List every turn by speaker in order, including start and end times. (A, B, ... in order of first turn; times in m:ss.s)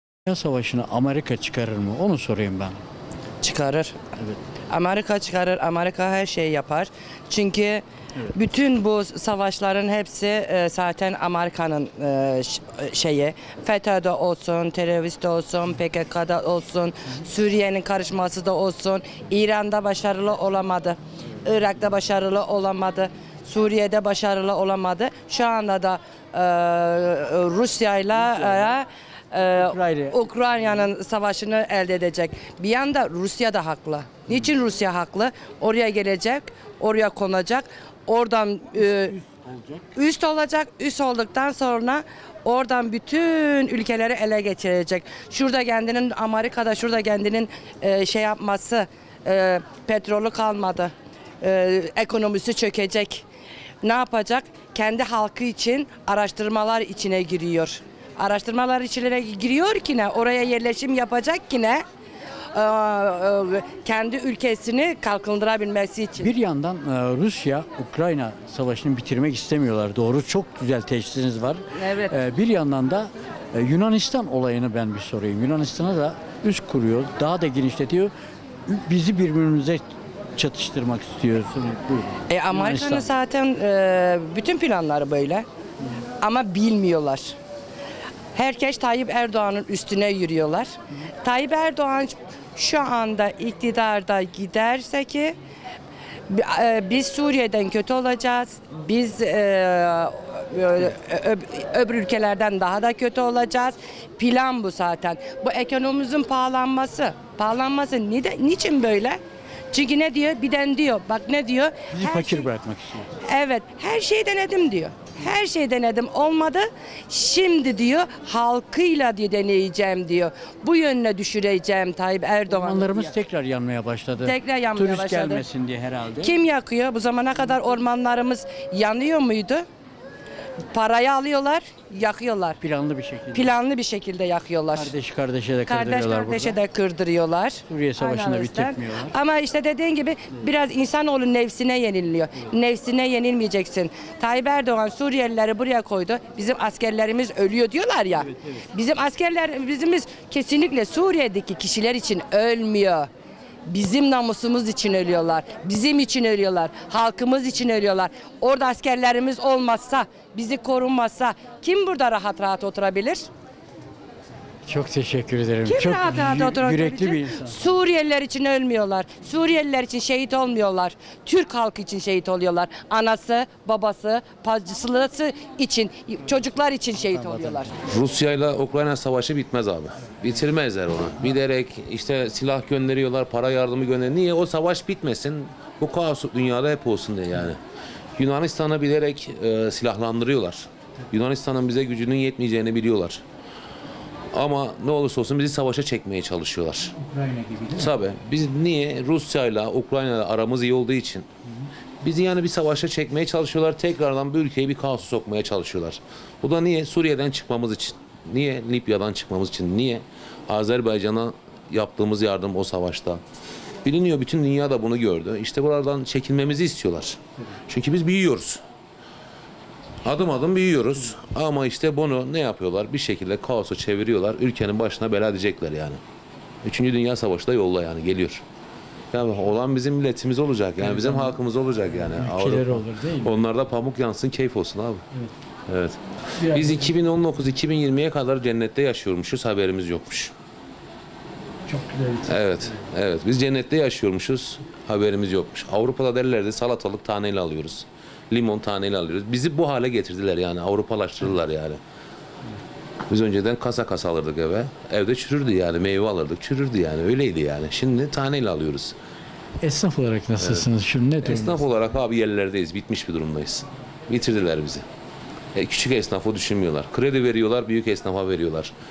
0:00.3-0:02.8 A
0:03.4-0:04.1 B
0:04.7-0:39.2 B
0:28.4-0:28.7 A
0:29.7-0:30.1 A
0:38.8-0:39.9 A
0:39.9-0:53.3 B
0:53.8-1:01.8 B
1:02.5-1:06.3 B
1:06.2-1:18.1 A
1:11.8-1:12.2 B
1:18.7-1:19.8 A
1:20.4-1:23.1 A
1:22.3-1:25.5 B
1:26.2-1:27.4 B
1:28.4-1:30.7 B
1:31.2-1:35.4 B
1:36.3-1:49.2 B
1:49.7-1:52.5 B
1:51.9-1:53.1 A
1:53.2-2:03.2 B
2:02.5-2:06.3 A
2:04.2-2:05.5 B
2:06.1-2:09.7 B
2:10.7-2:12.6 B
2:12.6-2:13.5 A
2:13.3-2:14.9 B
2:14.8-2:16.6 A
2:15.7-2:33.1 B
2:17.7-2:19.1 A
2:33.7-2:43.3 B
2:44.6-2:47.6 A
2:45.6-2:57.7 B
2:57.1-2:57.6 A
2:57.9-3:07.6 C
3:08.2-3:13.2 C
3:14.3-3:17.0 C
3:17.1-3:17.7 A
3:17.6-3:21.3 C
3:22.0-3:33.2 C
3:33.8-3:38.6 C
3:40.0-3:46.0 C
3:46.6-3:48.4 C
3:49.1-3:55.0 C
3:50.8-3:51.4 A
3:52.1-3:53.4 A
3:55.7-4:00.3 C
3:56.4-3:56.9 A
4:01.7-4:02.3 A
4:02.2-4:11.8 C
4:13.1-4:19.0 C
4:19.6-4:21.6 A
4:20.4-4:24.9 C
4:25.6-4:28.7 C